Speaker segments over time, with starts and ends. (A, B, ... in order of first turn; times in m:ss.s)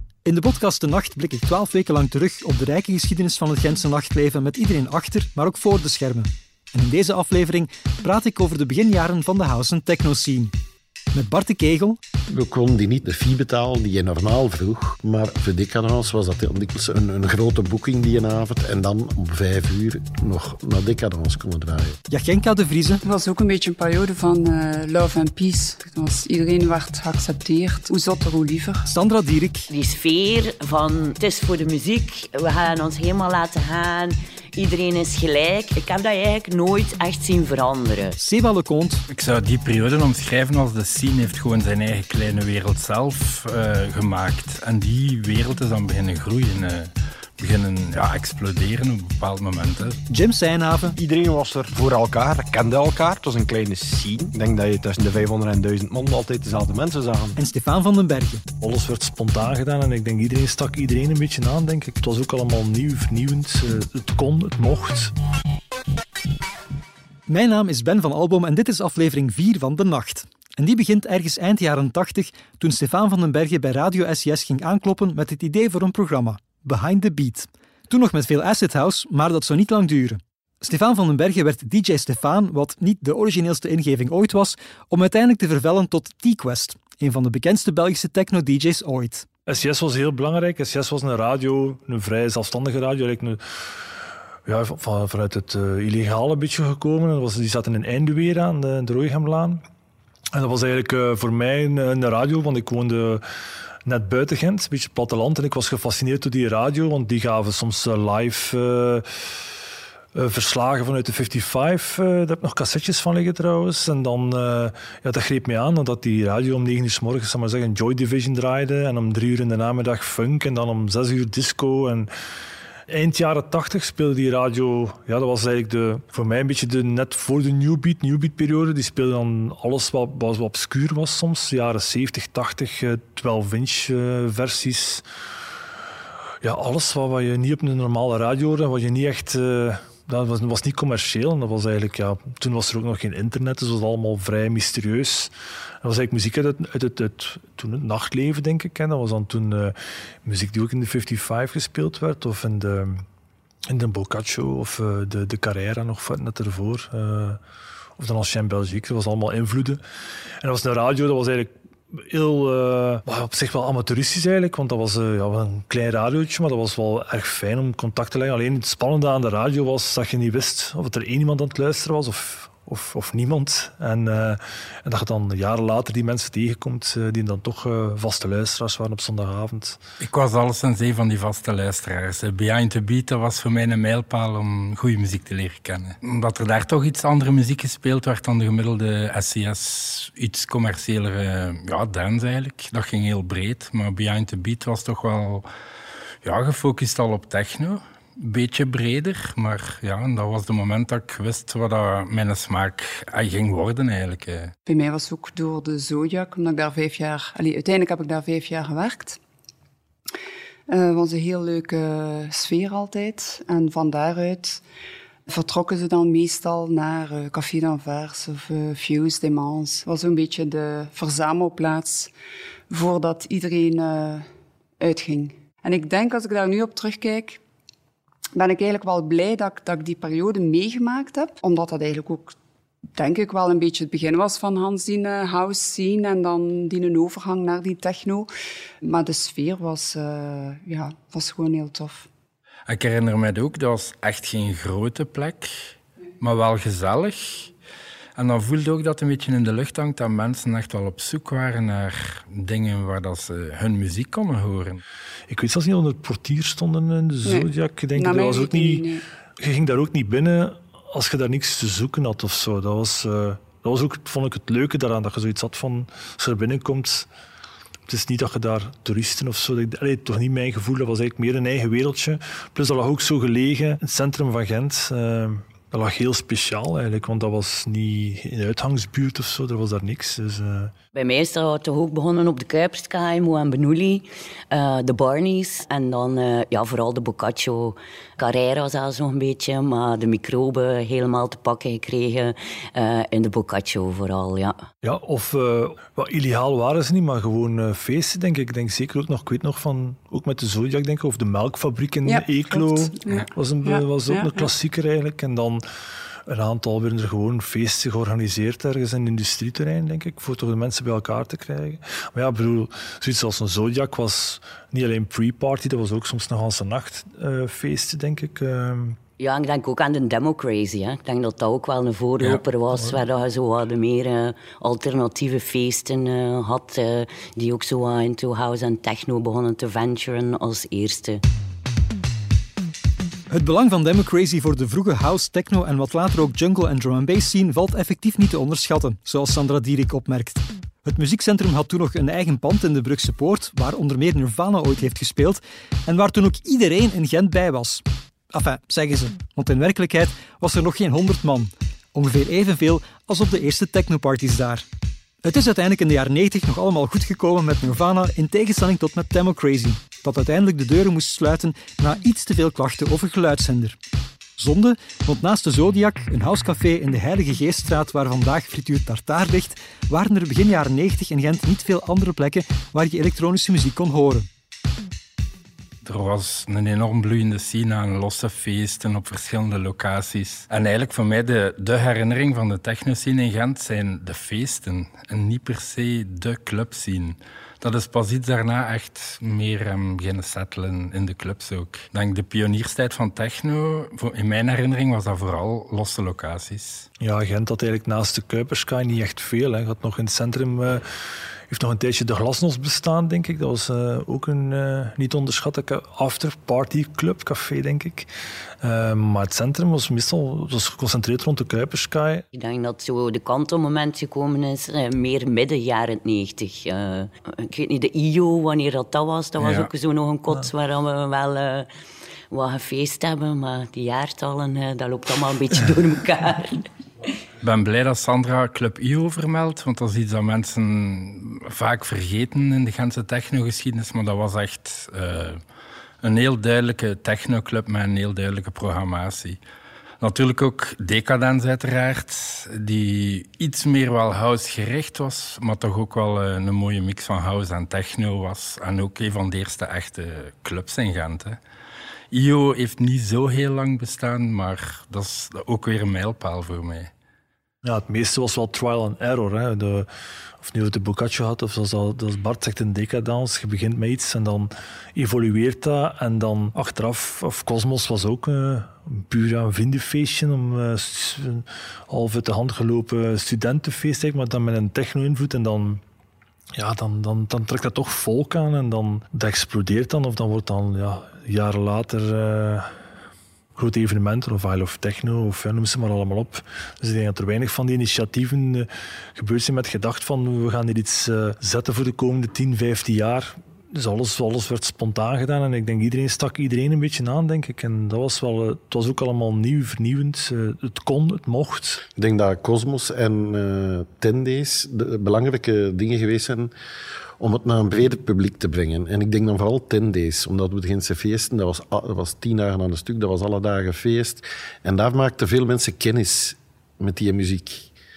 0:00.2-0:10.5 A
0:11.1-0:12.0 A
0:12.3-0:22.0 B
0:22.1-0:23.0 A
0:23.0-0:28.8 C
0:28.8-0:29.7 A
0:29.7-0:38.2 D
0:38.2-0:39.0 A
0:39.1-0:50.0 E
0:50.1-0:51.0 A
0:51.0-0:57.4 F
0:57.4-0:58.4 A
0:58.6-1:05.1 G
1:07.3-1:29.2 A
1:29.5-1:33.9 G
1:34.4-1:39.6 G
1:40.3-1:43.2 G
1:43.8-1:49.5 G
1:50.1-2:02.1 G
2:02.9-2:15.0 G
2:16.4-2:33.0 G
2:33.7-2:37.4 G
2:38.0-2:39.8 G
2:40.4-2:59.8 G
3:00.0-3:15.5 E
3:16.2-3:24.5 E
3:24.7-3:29.2 C
3:30.7-3:34.6 C
3:35.3-3:42.1 C
3:42.7-3:44.3 C
3:44.8-3:47.4 C
3:48.4-3:52.4 C
3:53.0-3:58.3 C
3:58.8-4:02.1 C
4:02.7-4:07.5 E
4:08.2-4:14.8 E
4:15.3-4:27.1 G
4:17.2-4:19.0 C
4:27.8-4:40.7 G
4:40.9-4:54.6 D
4:54.8-5:05.6 G
5:02.0-5:04.5 C
5:06.2-5:19.0 G
5:19.2-5:31.2 D
5:33.3-5:54.6 A
5:55.2-6:03.8 A
6:04.4-6:14.3 A
6:15.8-6:36.9 E
6:37.0-6:40.8 G
6:41.5-6:48.1 G
6:48.6-6:52.2 G
6:52.3-7:01.7 D
6:59.4-6:59.7 E
7:02.3-7:06.7 D
7:07.4-7:15.4 E
7:16.0-7:19.4 E
7:20.0-7:31.4 E
7:32.1-7:36.9 E
7:37.6-7:39.9 G
7:40.4-7:55.8 G
7:56.6-8:02.7 G
8:03.6-8:21.8 G
8:22.0-8:26.5 B
8:27.2-8:37.7 B